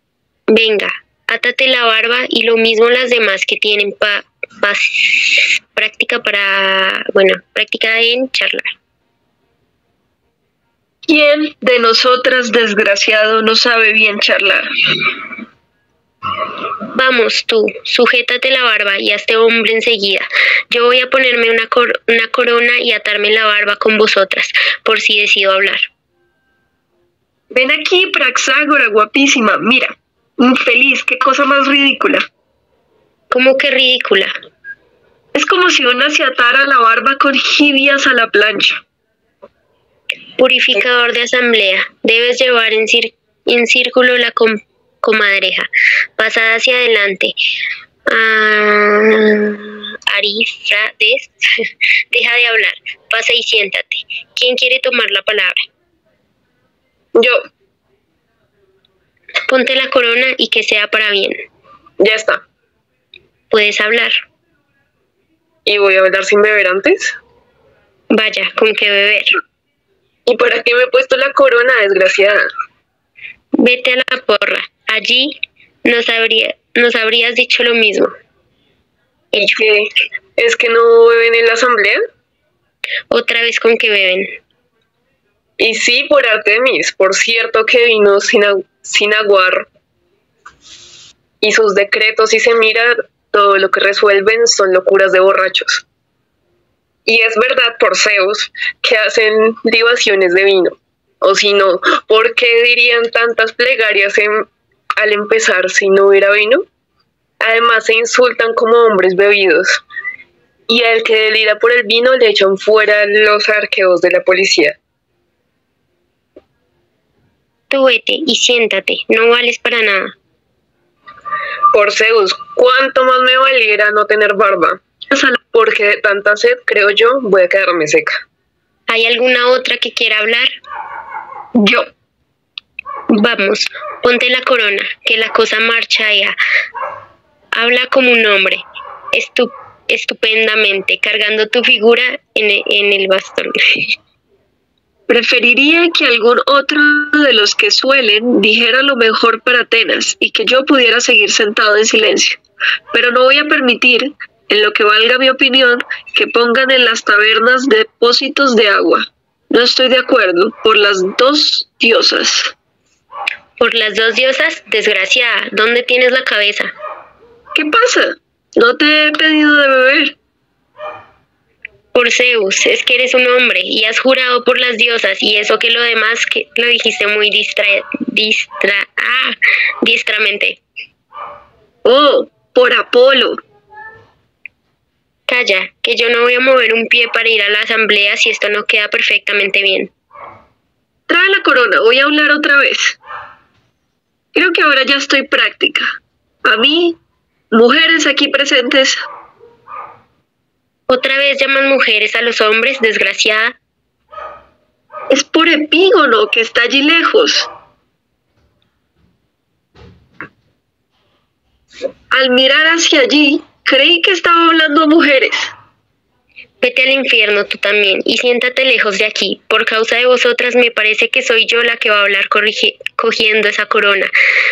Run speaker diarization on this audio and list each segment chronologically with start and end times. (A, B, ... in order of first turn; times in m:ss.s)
0:00.5-0:08.7 A
0:11.1-0:14.7 B
0:16.9-0:25.9 A
0:27.5-0:32.3 B
0:33.3-0:34.4 A
0:35.4-0:38.8 B
0:40.4-0:47.4 A
0:48.1-0:55.6 A
0:57.2-0:57.4 C
0:59.5-1:01.4 A
1:02.0-1:02.4 C
1:03.5-1:04.2 A
1:05.7-1:07.2 C
1:08.1-1:09.4 A
1:10.3-1:12.5 C
1:13.6-1:18.1 A
1:19.3-1:19.6 A
1:19.4-1:22.0 C
1:23.1-1:24.4 A
1:25.6-1:29.7 C
1:31.4-1:35.8 C
1:37.1-1:46.7 C
1:47.4-1:49.8 C
1:50.7-1:54.8 C
1:57.7-2:00.2 A
2:01.7-2:04.8 C
2:05.1-2:05.4 B
2:05.5-2:08.2 C
2:08.9-2:10.5 A
2:11.6-2:11.9 B
2:13.1-2:16.4 A
2:17.5-2:24.0 A
2:25.1-2:32.4 B
2:32.9-2:42.5 B
2:43.6-2:46.7 A
2:47.6-2:50.2 B
2:51.9-3:00.6 A
3:01.8-3:03.4 B
3:05.3-3:09.9 A
3:11.1-3:13.0 B
3:14.3-3:17.0 B
3:17.5-3:19.0 B
3:20.9-3:23.6 A
3:25.1-3:27.5 B
3:32.1-3:35.5 B
3:36.6-3:44.1 A